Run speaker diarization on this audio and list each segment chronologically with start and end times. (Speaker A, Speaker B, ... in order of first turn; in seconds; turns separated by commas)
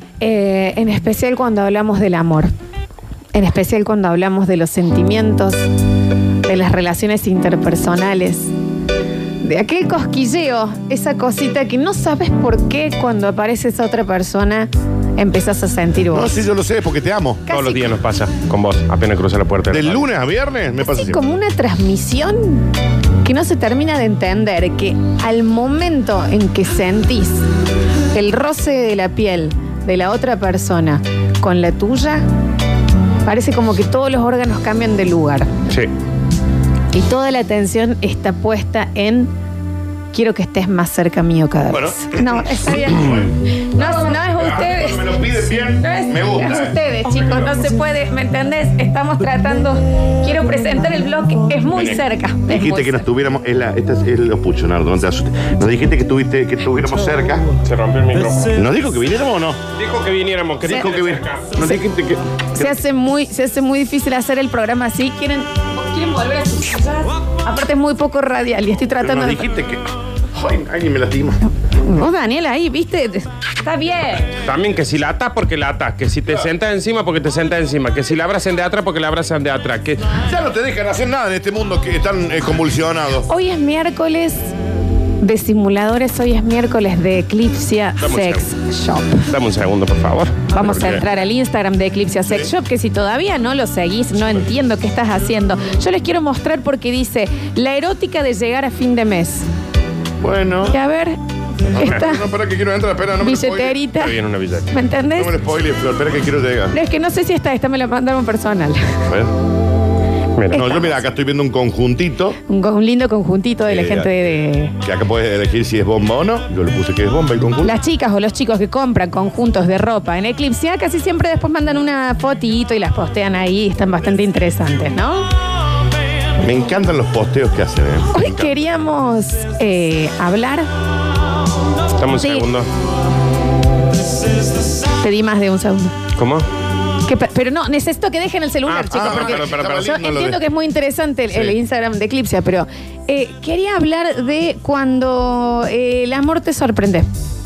Speaker A: 0.2-2.5, Speaker A: 3.3-5.7, Speaker A: 6.5-8.5, Speaker A: 9.4-16.3, Speaker B: 16.1-17.4, Speaker A: 17.5-17.9, Speaker C: 17.5-20.1, Speaker B: 19.7-21.2, Speaker A: 20.8-22.7, Speaker A: 23.2-27.4, Speaker A: 28.1-32.2, Speaker A: 33.2-35.5, Speaker A: 36.9-39.3, Speaker A: 40.1-45.1, Speaker B: 41.7-46.7, Speaker A: 45.8-53.1, Speaker B: 51.7-57.5, Speaker C: 57.6-58.5, Speaker B: 58.5-59.6, Speaker C: 59.7-61.6, Speaker B: 60.6-62.7, Speaker A: 62.5-69.5, Speaker B: 69.0-71.4, Speaker A: 71.8-74.3, Speaker C: 74.4-80.1, Speaker B: 80.2-83.2, Speaker A: 83.3-84.5, Speaker A: 85.2-89.2, Speaker C: 88.0-88.4, Speaker C: 89.3-90.5, Speaker A: 90.5-99.5, Speaker B: 90.6-91.0, Speaker B: 100.2-100.8, Speaker A: 100.7-101.2, Speaker B: 101.7-103.8, Speaker A: 101.8-102.2, Speaker A: 103.2-104.1, Speaker C: 103.9-104.7, Speaker A: 104.7-105.3, Speaker B: 105.1-106.8, Speaker A: 106.7-108.9, Speaker B: 109.1-109.3, Speaker A: 110.5-111.0, Speaker B: 110.5-112.3, Speaker A: 112.4-114.7, Speaker B: 113.7-114.1, Speaker B: 114.8-117.7, Speaker A: 117.6-125.3, Speaker B: 126.4-128.6, Speaker A: 128.1-130.7, Speaker C: 132.0-132.7, Speaker A: 132.2-132.5, Speaker A: 135.0-135.9, Speaker C: 136.2-136.4, Speaker A: 137.0-147.1, Speaker C: 138.7-139.9, Speaker B: 138.9-140.4